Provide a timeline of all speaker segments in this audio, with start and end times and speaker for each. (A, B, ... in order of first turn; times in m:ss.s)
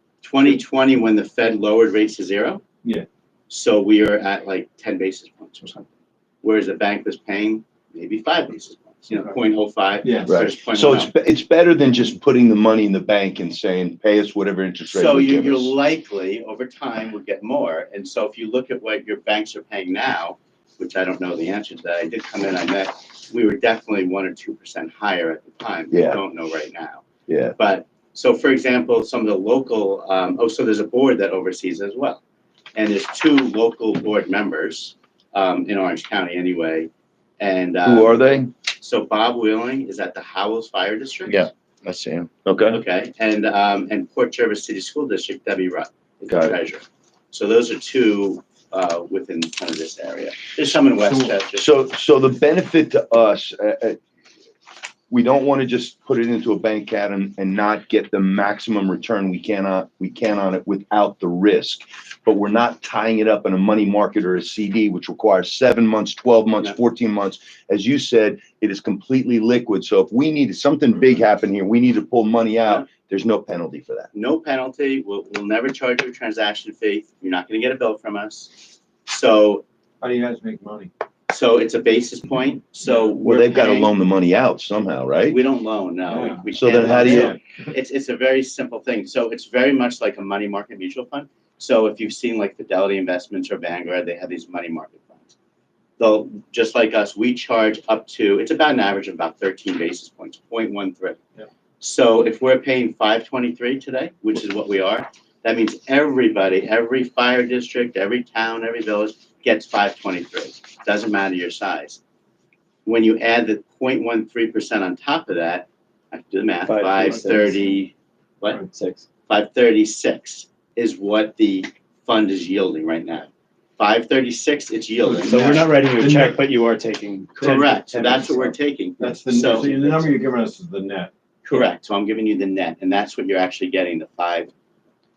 0:00.2-0:02.6 A
0:03.5-0:05.9 A
0:06.4-0:11.1 A
0:10.0-0:10.3 B
0:10.3-0:15.7 C
0:14.9-0:27.0 A
0:25.9-0:26.2 C
0:27.3-0:27.5 C
0:27.6-0:32.2 A
0:32.7-0:38.2 A
0:37.8-0:38.5 C
0:38.8-0:41.5 A
0:41.3-0:42.8 C
0:42.7-0:51.7 A
0:46.3-0:46.6 C
0:51.5-0:54.0 C
0:55.1-1:14.1 C
1:14.1-1:19.6 A
1:20.0-1:20.9 B
1:21.3-1:23.9 A
1:23.2-1:25.4 C
1:25.3-1:35.3 A
1:26.1-1:27.4 B
1:26.5-1:27.3 C
1:36.0-1:41.2 A
1:41.8-1:52.0 A
1:52.8-1:58.6 A
1:56.7-1:57.6 D
1:58.7-1:59.0 D
1:59.3-2:05.7 A
2:05.0-2:06.4 B
2:05.2-2:08.5 D
2:07.4-2:10.1 A
2:09.0-2:11.1 B
2:11.4-2:14.5 A